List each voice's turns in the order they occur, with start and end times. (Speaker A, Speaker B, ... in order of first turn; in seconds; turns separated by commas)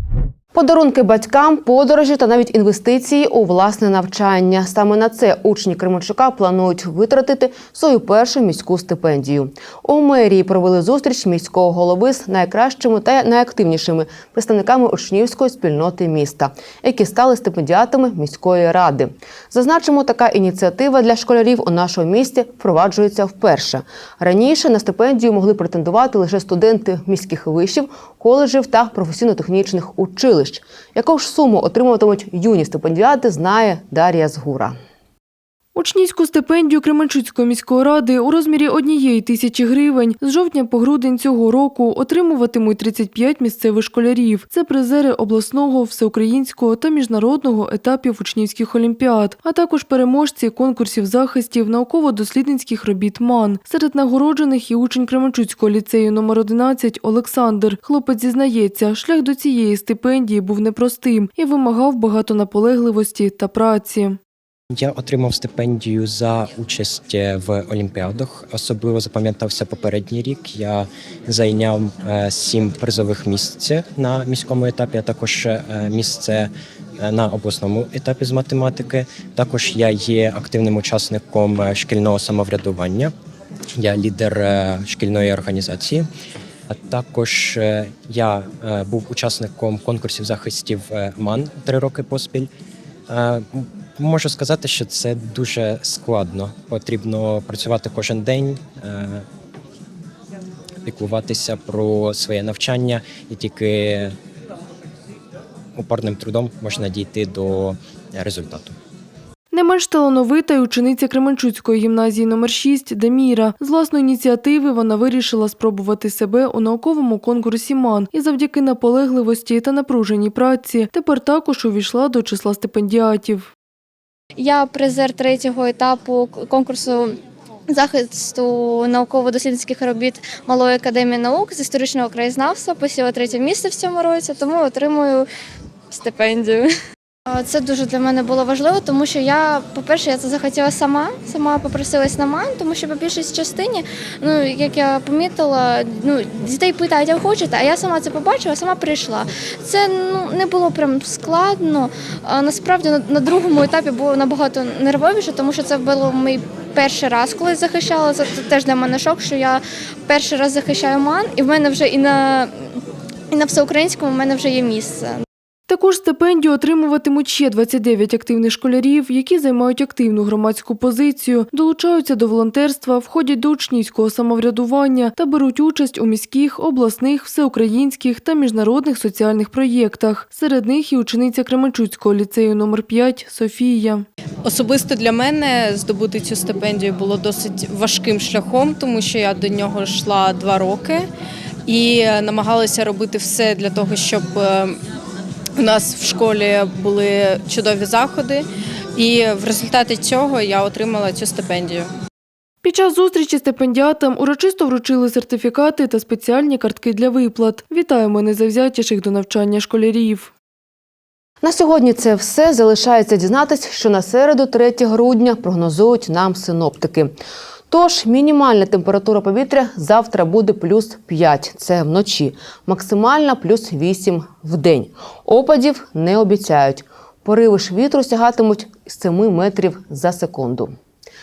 Speaker A: 0.5-34.8, Speaker B: 35.8-64.2, Speaker C: 64.7-83.1, Speaker C: 83.7-86.1, Speaker C: 86.7-92.5, Speaker C: 93.1-99.3, Speaker C: 100.8-104.2, Speaker C: 105.8-108.8, Speaker B: 109.5-123.5, Speaker D: 124.4-127.2, Speaker D: 127.7-135.3, Speaker D: 135.9-136.7, Speaker D: 137.3-162.8, Speaker D: 163.3-165.2, Speaker B: 165.7-184.1, Speaker E: 184.4-191.1, Speaker E: 191.7-194.8, Speaker E: 195.6-201.9, Speaker B: 202.6-210.3, Speaker A: 211.4-217.1, Speaker A: 217.7-230.7